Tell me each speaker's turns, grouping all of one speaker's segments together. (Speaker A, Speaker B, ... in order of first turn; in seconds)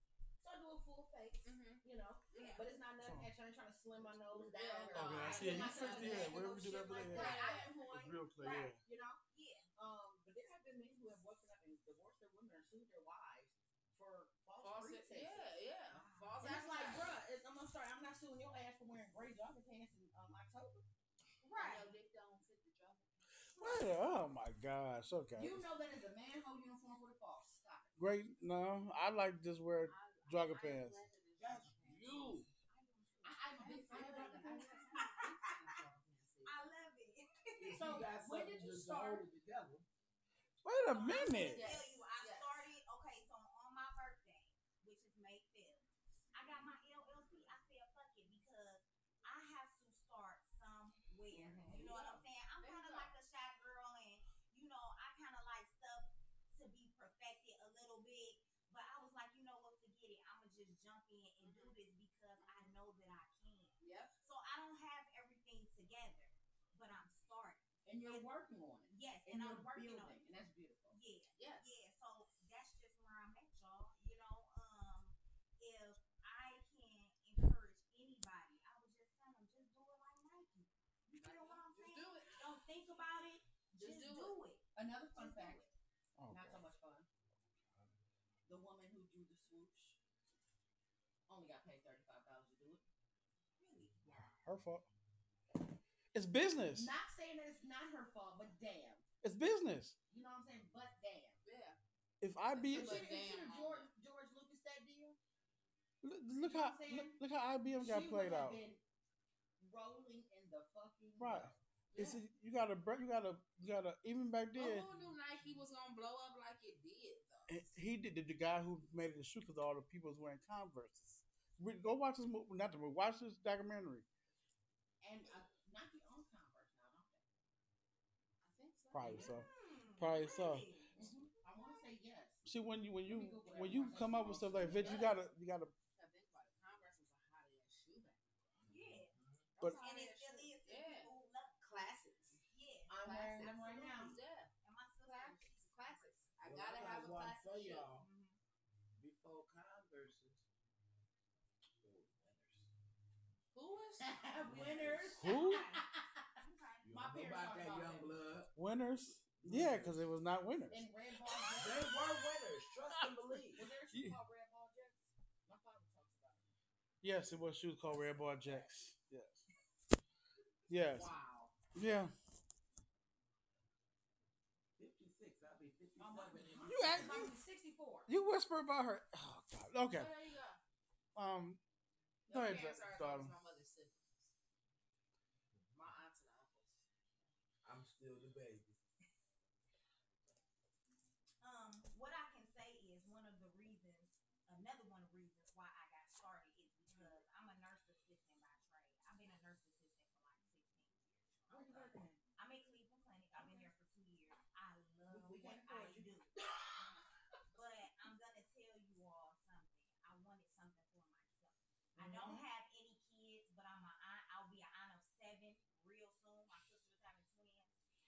Speaker A: 0.4-9.2, 9.8-15.5, 16.4-20.8, 25.4-28.0, 33.2-35.0, 37.6-39.3, 51.3-52.2, 67.8-71.0, 84.7-85.6, 86.3-87.1, 88.5-90.0, 91.3-92.8, 96.7-99.0, 100.1-101.4, 102.7-105.2, 106.4-107.2, 107.8-108.8, 109.6-111.6, 125.0-127.2, 130.9-132.4, 133.0-135.2, 142.9-144.2, 154.0-156.3, 156.9-158.2, 160.7-162.0, 163.5-166.5, 167.9-168.7, 170.8-171.5, 176.0-178.1, 201.5-202.2, 203.3-203.7, 205.1-206.2, 211.9-212.4
Speaker B: 1.4-2.6, 4.4-6.4, 7.0-7.8, 14.6-17.1, 21.6-23.9, 29.8-32.4, 33.6-36.6, 41.4-42.6, 52.6-53.1, 61.4-61.8, 62.4-62.7, 63.8-64.1, 71.3-71.7, 81.2-82.3, 83.7-84.3, 101.4-101.8, 102.5-103.9, 111.9-112.2, 114.5-117.6, 128.4-129.5, 134.8-135.1, 135.9-138.3, 139.5-142.4, 143.0-144.5, 145.0-147.9, 153.5-154.1, 179.9-180.6, 182.3-184.3, 185.7-186.8
Speaker C: 2.3-2.6, 7.1-7.7, 8.4-8.7, 9.3-9.7, 15.9-17.1, 21.4-21.9, 32.7-35.3, 36.4-38.1, 40.8-68.3, 68.9-70.2, 70.9-85.7, 93.6-94.3, 129.3-131.8, 138.7-141.6, 142.5-143.5, 144.6-146.2, 147.9-148.4, 155.3-155.8, 156.4-156.8, 161.3-161.5, 191.4-206.3, 207.5-217.7
Speaker D: 3.0-3.3, 4.9-8.8, 23.5-25.6, 28.0-31.0, 40.6-41.8, 86.2-86.7, 94.1-94.9, 96.1-96.9, 99.2-100.0, 102.2-103.3, 106.0-108.6, 111.2-114.9, 117.5-124.0, 128.9-130.7, 132.4-135.7, 155.2-155.7, 158.5-160.9, 162.9-164.2, 167.0-169.4, 170.7-171.1, 171.7-172.1, 176.7-177.3, 178.1-180.1, 181.1-181.6, 182.3-183.3
Speaker E: 4.2-4.5, 31.4-32.5, 37.6-39.9, 138.5-139.5, 146.4-148.1, 148.9-150.4, 151.8-152.7, 154.4-155.3, 156.8-158.5, 159.2-160.1, 161.5-163.6, 174.8-177.3, 187.6-188.8